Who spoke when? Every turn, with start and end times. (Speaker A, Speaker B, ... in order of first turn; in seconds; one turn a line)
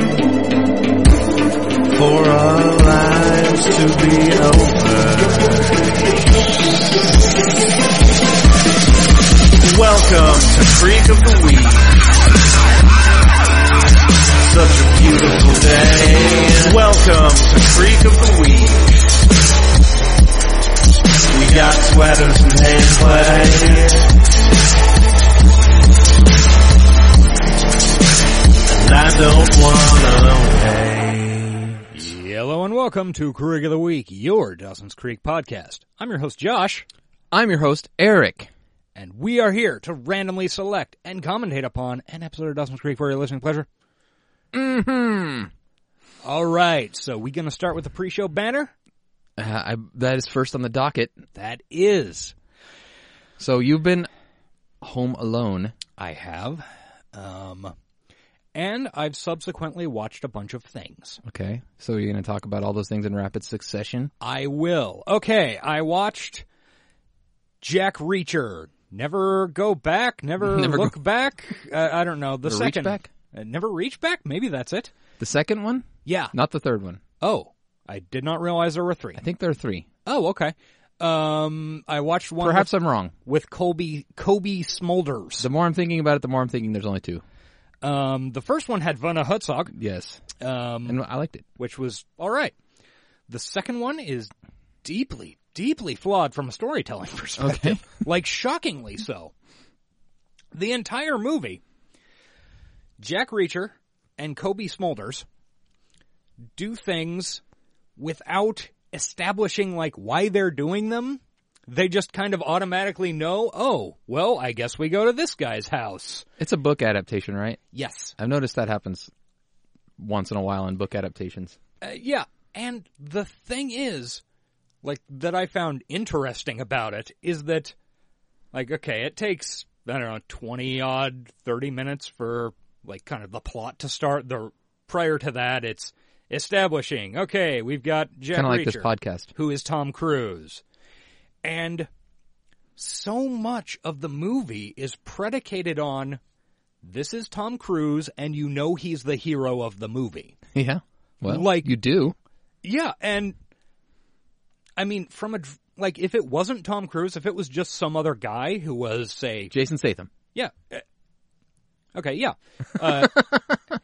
Speaker A: 1.9-6.4
Speaker A: 9.6-12.1
Speaker A: 14.4-19.0
Speaker A: 21.3-24.1
Speaker A: 28.7-31.8
Speaker B: 31.9-36.9
Speaker C: 37.3-38.5
Speaker B: 38.9-43.7
Speaker C: 44.5-45.5
Speaker B: 46.2-48.7
Speaker C: 49.4-51.2
Speaker B: 51.3-52.3
Speaker C: 53.4-54.1
Speaker C: 54.8-55.8
Speaker B: 56.0-57.7
Speaker B: 58.5-61.2
Speaker C: 61.2-64.1
Speaker B: 64.2-66.4
Speaker B: 67.6-74.9
Speaker C: 70.4-71.0
Speaker C: 72.4-73.1
Speaker C: 75.2-77.0
Speaker B: 76.0-76.3
Speaker B: 77.2-79.2
Speaker C: 79.2-79.9
Speaker B: 80.0-82.7
Speaker C: 82.4-83.1
Speaker B: 83.2-85.5
Speaker C: 85.4-87.2
Speaker B: 87.8-89.7
Speaker C: 89.7-90.2
Speaker B: 90.4-91.0
Speaker C: 90.8-91.5
Speaker B: 91.6-92.5
Speaker B: 93.3-94.3
Speaker B: 94.8-99.3
Speaker C: 97.4-97.8
Speaker B: 100.5-101.6
Speaker B: 103.0-105.2
Speaker B: 106.5-107.4
Speaker B: 108.0-116.2
Speaker C: 116.4-117.6
Speaker B: 117.7-118.1
Speaker C: 118.2-119.1
Speaker C: 120.0-121.6
Speaker B: 121.8-124.2
Speaker B: 124.8-127.7
Speaker B: 128.5-140.6
Speaker C: 138.3-139.3
Speaker B: 141.4-141.9
Speaker B: 142.8-146.2
Speaker B: 146.8-150.4
Speaker C: 150.5-152.2
Speaker B: 151.2-151.7
Speaker B: 152.6-153.3
Speaker B: 154.8-159.5
Speaker C: 159.5-160.1
Speaker B: 160.3-160.8
Speaker B: 161.9-163.4